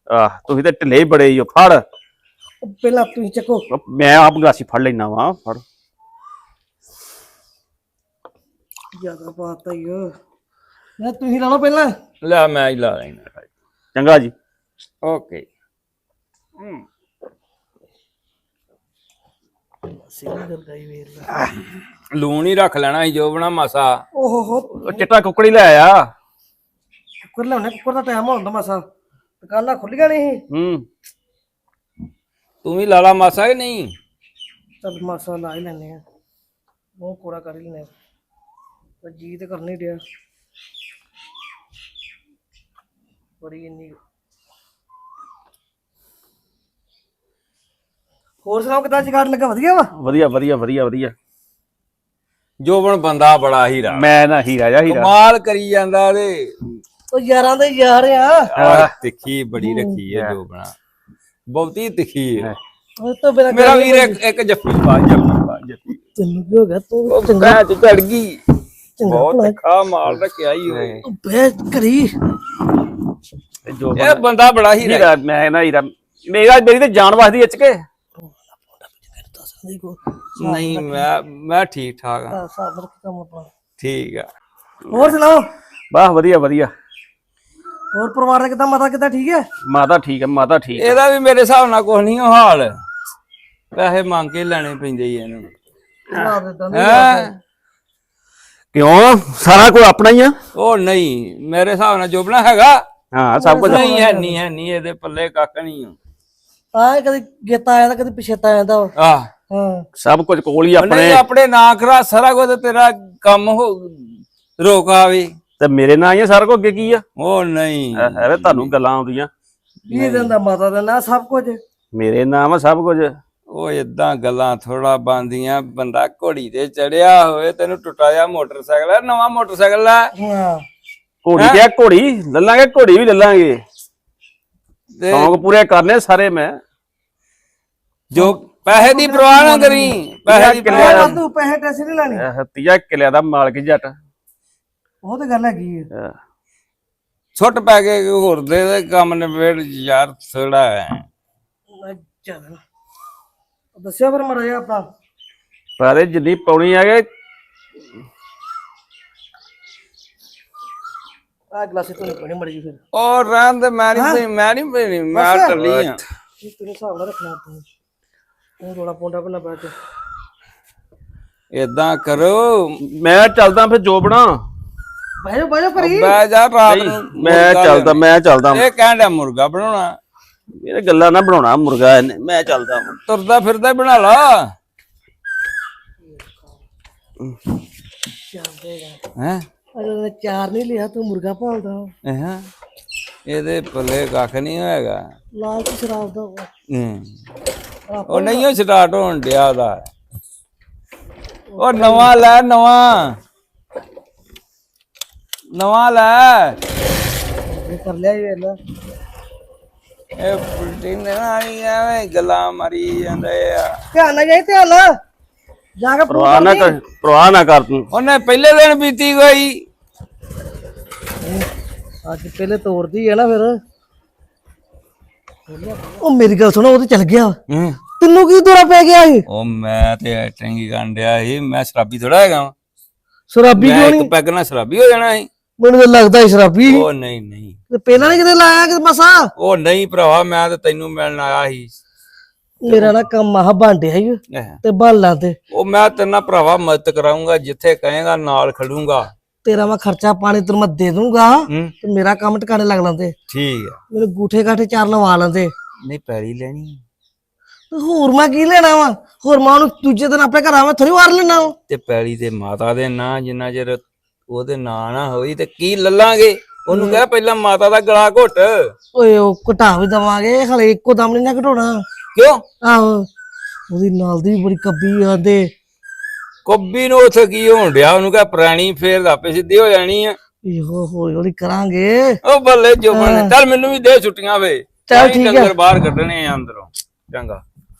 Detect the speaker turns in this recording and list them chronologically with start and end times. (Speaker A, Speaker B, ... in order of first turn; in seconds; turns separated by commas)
Speaker A: 0.1-1.8, Speaker B: 2.6-3.6, Speaker A: 3.7-5.6, Speaker B: 8.9-10.1, Speaker B: 11.0-11.9, Speaker C: 12.2-13.5, Speaker A: 13.9-14.3, Speaker C: 15.0-15.5, Speaker B: 20.1-21.3, Speaker C: 22.1-24.0, Speaker B: 24.1-25.1, Speaker A: 24.8-26.1, Speaker B: 27.2-28.9, Speaker B: 29.4-30.4, Speaker A: 30.5-30.9, Speaker C: 32.6-33.9, Speaker B: 34.8-36.0, Speaker B: 37.0-37.9, Speaker B: 39.0-40.0, Speaker B: 43.4-44.0, Speaker B: 48.4-49.9, Speaker A: 50.0-51.1, Speaker C: 52.6-54.0, Speaker A: 53.9-55.1, Speaker C: 54.9-56.6, Speaker B: 57.1-58.5, Speaker C: 58.5-60.7, Speaker A: 58.6-58.9, Speaker B: 59.6-60.0, Speaker C: 61.5-62.5, Speaker B: 63.0-64.2, Speaker C: 63.5-66.0, Speaker B: 66.2-67.6, Speaker C: 67.1-68.4, Speaker B: 69.0-69.6, Speaker C: 69.1-71.0, Speaker A: 70.7-71.0, Speaker B: 71.1-72.1, Speaker A: 73.7-74.2, Speaker C: 74.0-75.1, Speaker A: 74.8-77.8, Speaker B: 78.2-81.1, Speaker C: 80.4-82.4, Speaker B: 82.3-83.5, Speaker C: 83.8-84.3, Speaker B: 84.9-85.5, Speaker A: 85.9-86.7, Speaker B: 87.9-89.5, Speaker A: 89.7-91.0, Speaker C: 90.8-92.8, Speaker C: 93.7-95.5, Speaker B: 96.1-97.3, Speaker C: 96.7-97.3, Speaker A: 98.7-100.4, Speaker C: 100.5-102.8, Speaker A: 103.1-103.9, Speaker B: 103.4-104.4, Speaker C: 103.6-106.0, Speaker B: 106.7-108.9, Speaker C: 109.0-109.3, Speaker B: 109.5-109.9, Speaker A: 110.0-111.2, Speaker C: 110.8-115.3, Speaker A: 115.6-117.0, Speaker C: 117.2-118.7, Speaker A: 118.0-119.3, Speaker B: 119.9-121.6, Speaker A: 120.0-120.2, Speaker A: 122.0-123.2, Speaker C: 123.5-130.1, Speaker B: 130.2-130.7, Speaker A: 131.2-133.6, Speaker C: 135.0-135.4, Speaker A: 135.1-136.6, Speaker C: 138.1-141.2, Speaker B: 138.2-140.0, Speaker A: 140.3-141.2, Speaker B: 140.7-142.2, Speaker A: 142.2-143.9, Speaker B: 145.0-145.9, Speaker C: 147.4-151.0, Speaker B: 151.7-152.6, Speaker B: 153.8-154.9, Speaker A: 155.8-157.1, Speaker B: 161.5-162.8, Speaker C: 162.9-166.0, Speaker B: 163.9-164.2, Speaker B: 165.1-165.6, Speaker A: 165.6-165.9, Speaker B: 166.4-167.7, Speaker B: 168.6-169.8, Speaker C: 171.5-172.8, Speaker A: 172.8-174.4, Speaker B: 175.2-176.2, Speaker C: 175.8-180.0, Speaker A: 176.7-178.6, Speaker A: 180.6-183.0, Speaker C: 183.1-184.5, Speaker B: 186.1-186.4, Speaker B: 188.3-189.0, Speaker C: 189.2-189.4, Speaker B: 189.8-191.9, Speaker C: 192.1-192.5, Speaker C: 193.3-195.1, Speaker B: 195.4-196.5, Speaker C: 196.7-197.1, Speaker B: 197.9-198.5, Speaker C: 198.1-199.9, Speaker B: 201.5-202.1, Speaker C: 201.6-203.2, Speaker C: 205.6-206.6, Speaker B: 207.5-208.6, Speaker C: 210.2-213.8, Speaker B: 213.9-214.9, Speaker B: 215.8-216.7, Speaker A: 216.1-217.9, Speaker C: 217.9-219.6, Speaker B: 221.2-221.5, Speaker B: 222.1-223.6, Speaker B: 225.5-227.4, Speaker C: 227.5-227.8, Speaker B: 228.0-229.2, Speaker C: 229.3-232.5, Speaker B: 233.3-234.1, Speaker C: 233.6-235.3, Speaker B: 235.6-236.9, Speaker C: 236.7-238.1, Speaker B: 237.7-239.3, Speaker C: 239.4-241.7, Speaker B: 242.6-245.4, Speaker C: 244.3-244.6, Speaker C: 245.5-249.1, Speaker B: 249.4-253.2, Speaker C: 253.3-253.8, Speaker B: 253.9-255.5, Speaker C: 255.9-256.8, Speaker B: 257.7-261.5, Speaker C: 261.7-268.7, Speaker B: 266.7-267.0, Speaker B: 268.9-271.8, Speaker C: 272.1-272.4, Speaker B: 272.6-273.1, Speaker B: 273.7-275.5, Speaker C: 276.5-280.2, Speaker B: 280.5-282.2, Speaker C: 282.2-287.4, Speaker B: 282.9-283.3, Speaker B: 284.9-285.5